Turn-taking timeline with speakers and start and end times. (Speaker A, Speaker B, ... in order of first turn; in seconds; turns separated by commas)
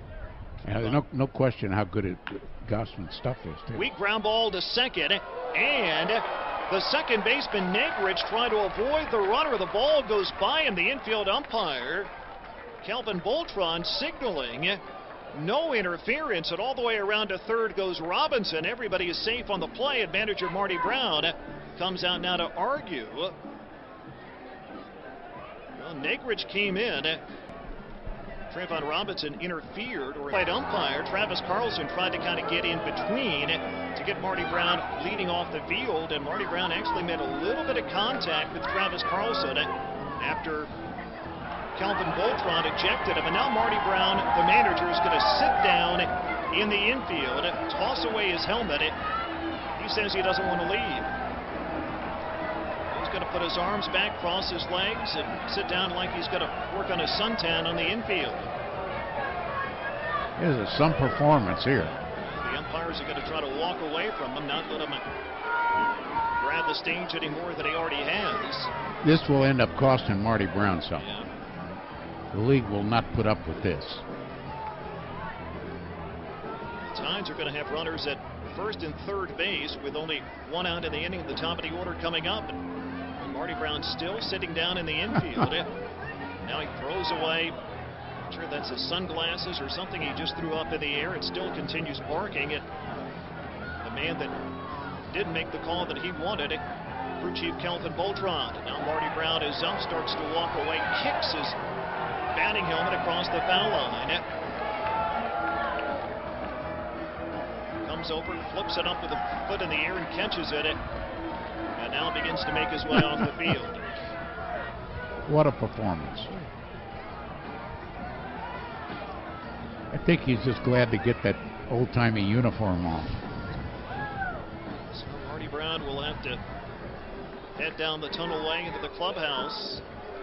Speaker A: 0.6-1.0, Speaker B: 0.6-3.9, Speaker A: 3.7-12.1, Speaker A: 12.8-14.8, Speaker A: 15.3-23.4, Speaker A: 25.8-27.2, Speaker A: 28.5-40.7, Speaker A: 41.8-49.0, Speaker A: 49.8-51.1, Speaker A: 52.9-58.5, Speaker B: 60.4-61.9, Speaker A: 62.2-65.0, Speaker A: 66.4-68.7, Speaker B: 69.0-71.1, Speaker A: 71.0-71.3, Speaker B: 72.3-74.0, Speaker A: 76.8-82.6, Speaker A: 83.2-85.7, Speaker A: 86.4-87.6, Speaker A: 88.3-92.7, Speaker A: 93.8-94.3, Speaker A: 95.1-96.6, Speaker A: 97.2-101.6, Speaker A: 102.3-104.2, Speaker A: 107.8-110.8, Speaker A: 111.8-113.9, Speaker B: 115.3-116.3, Speaker B: 119.9-123.2, Speaker A: 124.9-126.4, Speaker A: 127.6-129.8